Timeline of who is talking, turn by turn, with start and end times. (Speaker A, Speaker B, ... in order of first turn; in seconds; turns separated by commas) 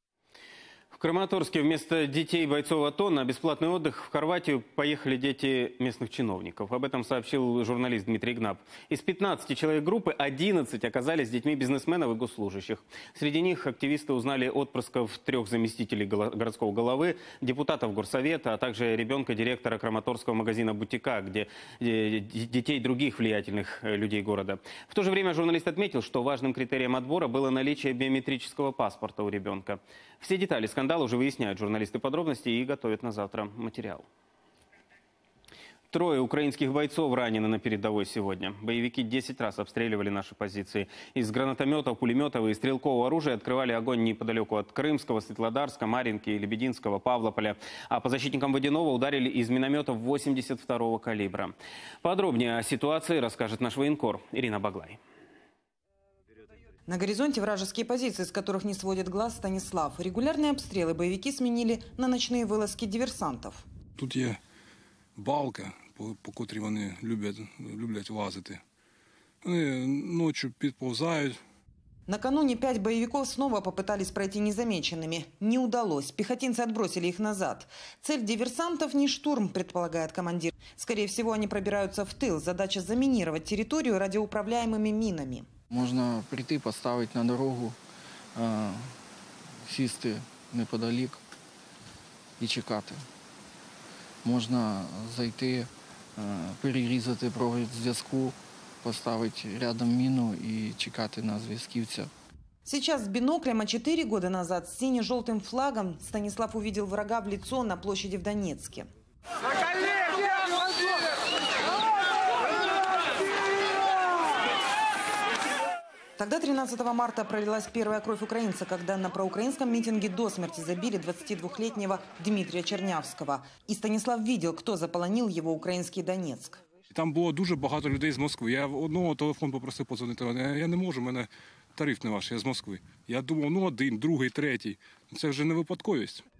Speaker A: 0.9-34.1, Speaker A: 35.9-55.0, Speaker B: 56.9-63.6, Speaker C: 64.0-64.4, Speaker C: 65.2-68.6, Speaker C: 69.4-71.4, Speaker B: 72.1-85.5, Speaker D: 85.7-87.8, Speaker D: 88.3-89.0, Speaker D: 89.7-91.2, Speaker D: 92.4-93.0, Speaker D: 94.2-102.1, Speaker B: 102.7-108.9, Speaker B: 116.2-126.6, Speaker C: 126.9-136.2